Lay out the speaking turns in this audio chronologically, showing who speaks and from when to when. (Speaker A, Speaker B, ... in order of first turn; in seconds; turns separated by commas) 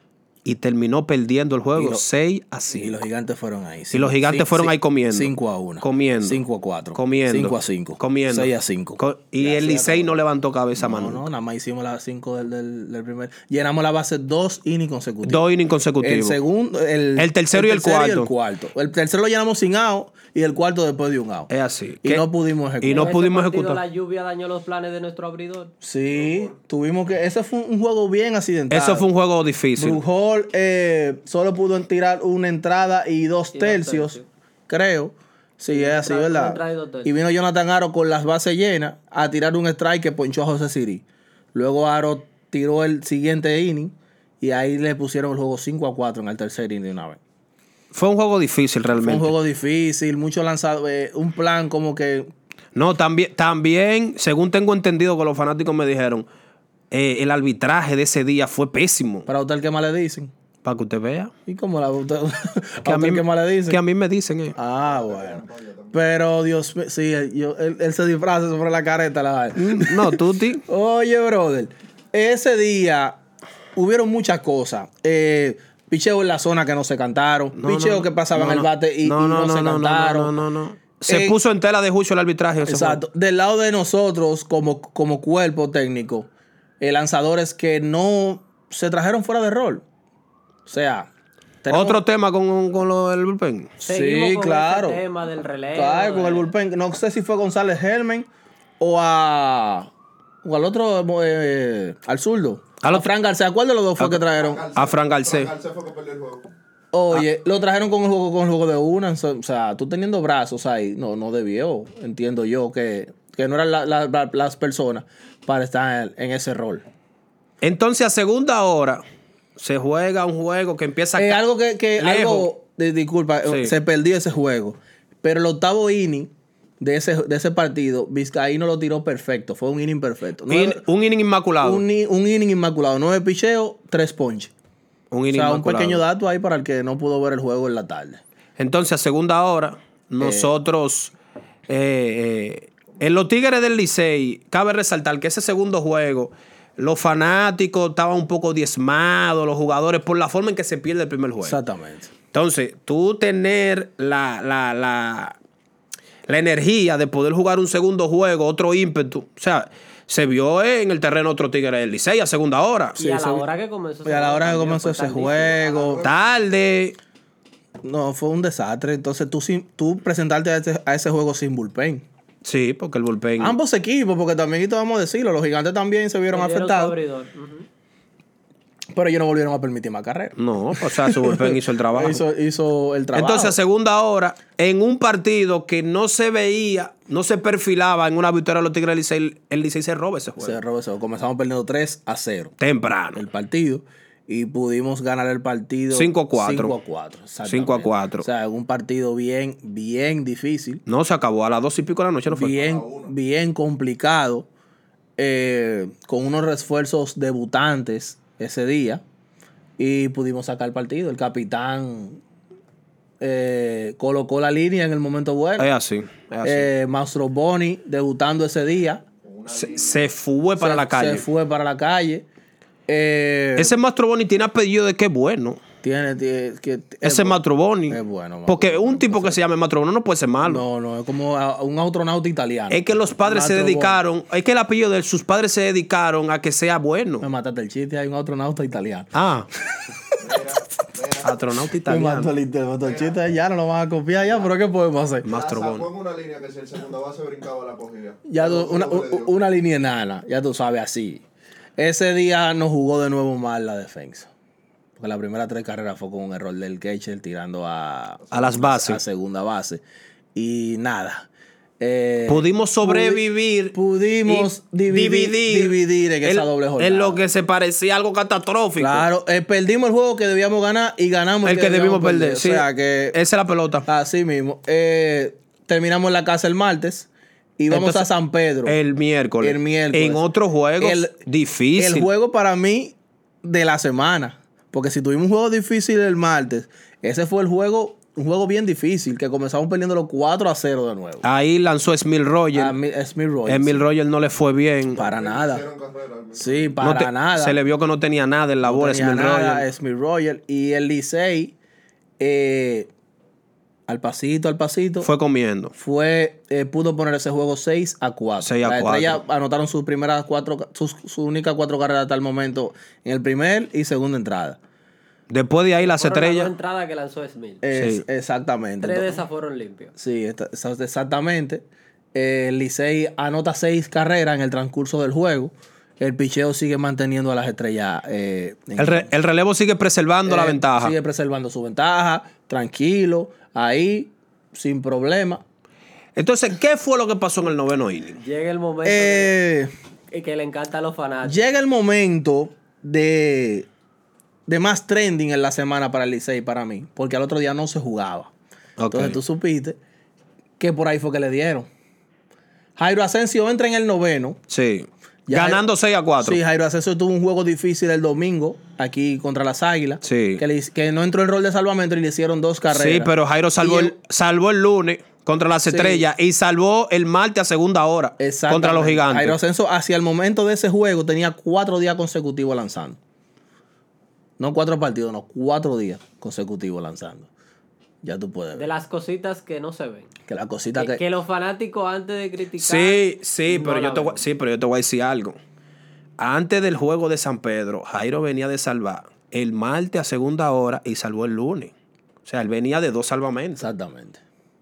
Speaker A: 0.4-3.0, Speaker B: 1.7-2.0, Speaker B: 2.7-10.2, Speaker A: 3.9-6.4, Speaker A: 6.9-11.2, Speaker B: 10.8-15.4, Speaker A: 15.2-16.4, Speaker B: 16.0-21.5, Speaker A: 17.2-18.3, Speaker A: 21.5-22.3, Speaker B: 22.0-23.1, Speaker A: 22.8-23.8, Speaker C: 22.9-25.7, Speaker B: 25.8-29.1, Speaker D: 26.1-26.6, Speaker A: 28.7-30.0, Speaker B: 29.8-47.2, Speaker C: 33.5-34.2, Speaker C: 35.7-37.1, Speaker A: 47.9-49.3, Speaker B: 48.9-52.3, Speaker A: 52.7-56.3, Speaker A: 56.9-59.3, Speaker B: 59.3-60.3, Speaker A: 60.6-61.3, Speaker B: 61.5-63.8, Speaker A: 62.8-64.5, Speaker B: 64.5-73.2, Speaker D: 64.8-66.0, Speaker A: 69.5-70.6, Speaker B: 73.8-80.3, Speaker A: 77.5-83.0, Speaker B: 81.1-81.3, Speaker B: 82.6-86.3, Speaker B: 86.8-89.8, Speaker B: 90.7-91.1, Speaker B: 91.6-92.0, Speaker A: 91.7-93.8, Speaker C: 93.8-96.5, Speaker B: 93.8-95.0, Speaker B: 95.7-98.3, Speaker B: 98.8-99.9, Speaker B: 100.4-104.7, Speaker A: 102.8-103.1, Speaker D: 104.3-106.5, Speaker A: 104.7-105.5, Speaker B: 106.9-116.8, Speaker A: 117.6-119.0, Speaker A: 119.6-121.4, Speaker B: 121.2-130.8, Speaker A: 122.0-122.5, Speaker A: 123.5-123.7, Speaker A: 130.5-131.8, Speaker B: 131.6-134.5, Speaker A: 135.1-136.0, Speaker B: 135.3-138.2, Speaker A: 138.6-141.1, Speaker B: 140.2-140.5, Speaker A: 141.7-151.6, Speaker B: 151.4-152.1, Speaker A: 152.3-155.3, Speaker A: 156.3-163.0, Speaker C: 163.0-165.9, Speaker B: 163.0-163.4, Speaker B: 164.0-166.0, Speaker D: 165.6-166.3, Speaker A: 166.0-166.9, Speaker B: 167.8-172.0, Speaker A: 172.4-173.6, Speaker B: 173.4-176.9, Speaker C: 176.3-177.7, Speaker B: 178.9-183.6, Speaker A: 180.3-182.2, Speaker A: 183.1-190.6, Speaker B: 190.4-192.5, Speaker A: 192.6-193.2, Speaker B: 193.1-200.8, Speaker A: 195.9-196.7, Speaker A: 197.4-198.2, Speaker A: 200.8-202.6, Speaker B: 202.3-204.5, Speaker D: 202.5-203.1, Speaker B: 205.2-209.0, Speaker B: 209.8-212.2, Speaker B: 213.2-215.7, Speaker A: 215.6-216.7, Speaker B: 216.4-219.0, Speaker D: 219.2-220.1, Speaker A: 219.5-221.3, Speaker B: 220.6-222.2, Speaker B: 222.9-223.8, Speaker A: 223.6-225.6, Speaker B: 225.8-229.4, Speaker A: 227.0-230.6, Speaker B: 230.4-234.0, Speaker A: 232.7-237.2, Speaker B: 237.2-239.1, Speaker A: 239.1-239.5, Speaker D: 240.2-241.4, Speaker A: 241.2-242.3, Speaker B: 241.8-245.3, Speaker D: 242.8-243.2, Speaker A: 245.2-245.9, Speaker D: 245.3-249.4, Speaker B: 248.3-251.2, Speaker B: 251.8-254.3, Speaker B: 255.0-259.8, Speaker A: 258.3-259.0, Speaker B: 260.3-261.3, Speaker B: 261.8-267.2, Speaker A: 262.3-269.1, Speaker B: 268.8-273.2, Speaker A: 271.4-273.9, Speaker B: 273.9-278.8, Speaker A: 277.7-278.1, Speaker A: 278.6-282.1, Speaker B: 279.4-280.2, Speaker B: 280.8-281.1, Speaker B: 281.8-291.2, Speaker A: 291.2-292.7, Speaker B: 292.5-293.9, Speaker A: 293.5-295.0, Speaker D: 294.9-296.8, Speaker B: 294.9-295.6, Speaker B: 296.4-297.6, Speaker A: 296.8-299.7, Speaker B: 298.6-301.5, Speaker B: 302.2-302.9, Speaker B: 303.9-305.1, Speaker A: 305.0-305.7, Speaker B: 305.7-314.6, Speaker A: 308.4-309.2, Speaker A: 315.3-316.5, Speaker C: 315.8-317.6, Speaker B: 317.6-319.2, Speaker A: 317.7-318.0, Speaker C: 318.8-319.9, Speaker B: 319.9-329.1, Speaker A: 328.8-330.9, Speaker B: 330.2-335.4, Speaker A: 336.1-338.2, Speaker C: 338.2-339.3, Speaker B: 338.8-339.7, Speaker C: 340.1-341.4, Speaker B: 341.2-343.7, Speaker B: 344.5-348.3, Speaker A: 348.8-349.2, Speaker B: 348.9-349.8, Speaker B: 350.6-351.7, Speaker B: 352.8-354.4, Speaker A: 354.5-356.4, Speaker B: 355.3-355.6, Speaker B: 356.2-363.9, Speaker A: 360.0-360.4, Speaker A: 362.7-369.4, Speaker B: 365.7-366.1, Speaker B: 368.2-373.0, Speaker B: 374.4-377.3, Speaker B: 378.0-378.6, Speaker C: 378.6-380.1, Speaker B: 380.3-381.0, Speaker C: 380.7-384.2, Speaker A: 382.6-385.4, Speaker A: 386.2-391.7, Speaker A: 392.2-393.7, Speaker B: 393.6-394.2